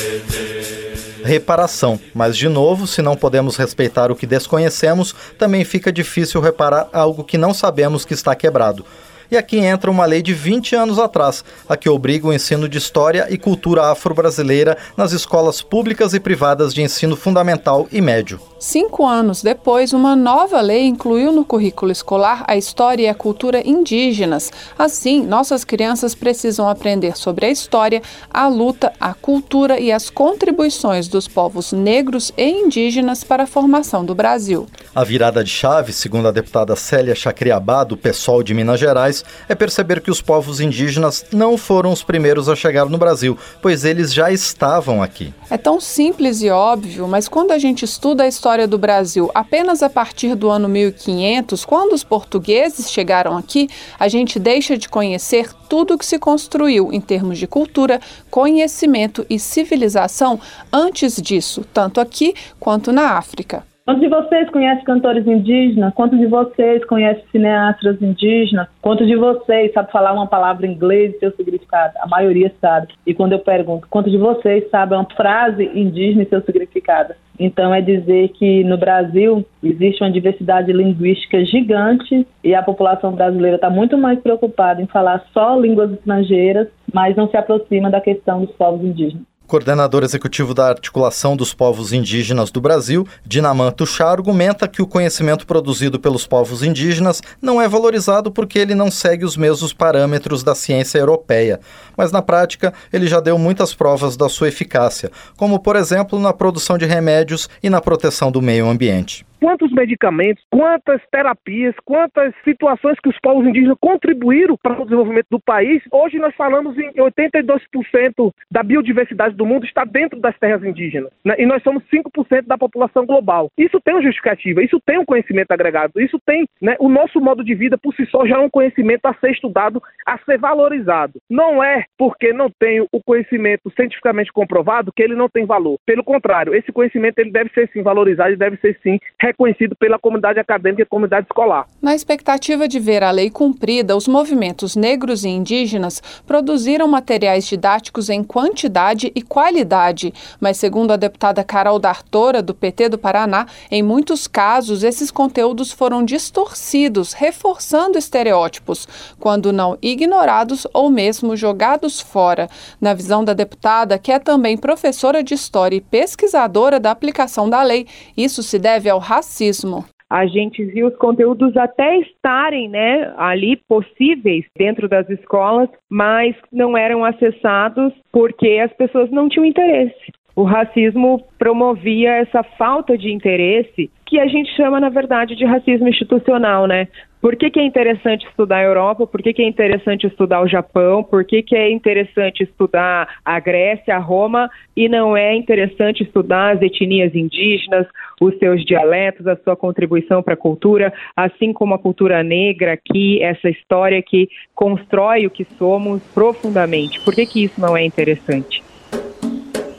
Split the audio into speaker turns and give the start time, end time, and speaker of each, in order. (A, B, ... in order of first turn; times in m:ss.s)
0:01.2-0:18.4 A
0:18.6-0:34.7 B
0:34.9-0:45.3 A
0:45.5-1:03.6 B
1:03.9-1:29.2 C
1:29.5-1:49.2 A
1:49.4-2:21.6 D
2:21.8-2:49.9 B
2:50.1-3:28.6 E